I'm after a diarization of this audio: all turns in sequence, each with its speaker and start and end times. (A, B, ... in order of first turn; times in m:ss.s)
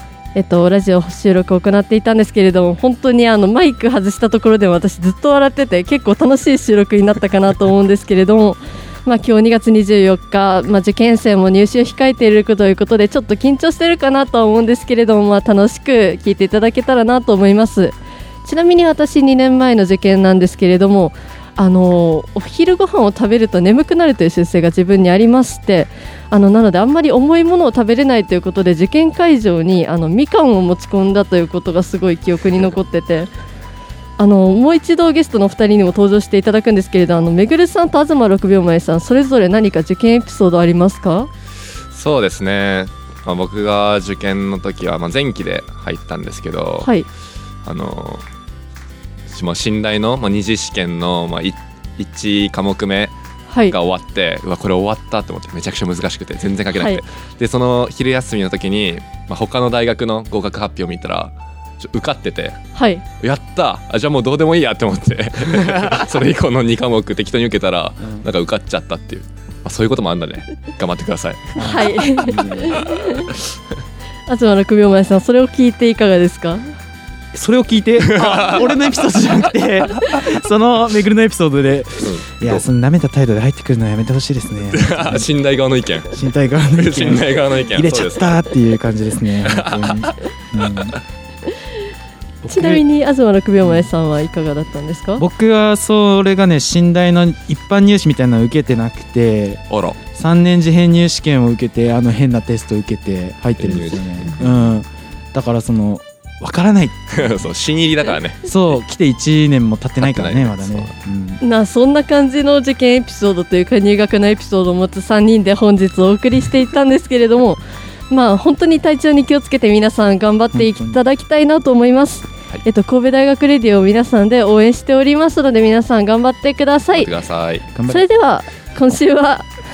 0:00.3-0:33.3 A
0:34.2-0:41.3 A
0:41.9-0:46.9 B
0:47.6-0:48.2 B
0:49.3-0:53.1 B
0:53.5-0:53.8 A
0:53.7-1:02.6 B
0:56.7-0:57.0 A
1:02.7-1:03.0 A
1:03.2-1:11.6 B
1:05.5-1:06.0 C
1:11.6-1:12.9 C
1:11.6-1:13.3 A
1:14.3-1:16.7 A
1:17.3-1:25.3 C
1:18.0-1:18.7 B
1:22.0-1:22.7 B
1:24.7-1:28.4 B
1:26.1-1:31.0 C
1:29.4-1:31.0 B
1:31.5-1:31.8 A
1:32.4-1:32.8 C
1:32.5-1:35.2 A
1:33.6-1:33.9 C
1:35.2-1:47.5 C
1:39.7-1:40.0 B
1:43.6-1:44.8 B
1:47.1-1:48.5 B
1:48.4-1:51.4 C
1:50.0-1:50.9 B
1:51.4-2:07.1 A
2:00.5-2:01.0 C
2:06.9-2:07.7 B
2:07.7-2:08.1 C
2:07.9-2:09.5 A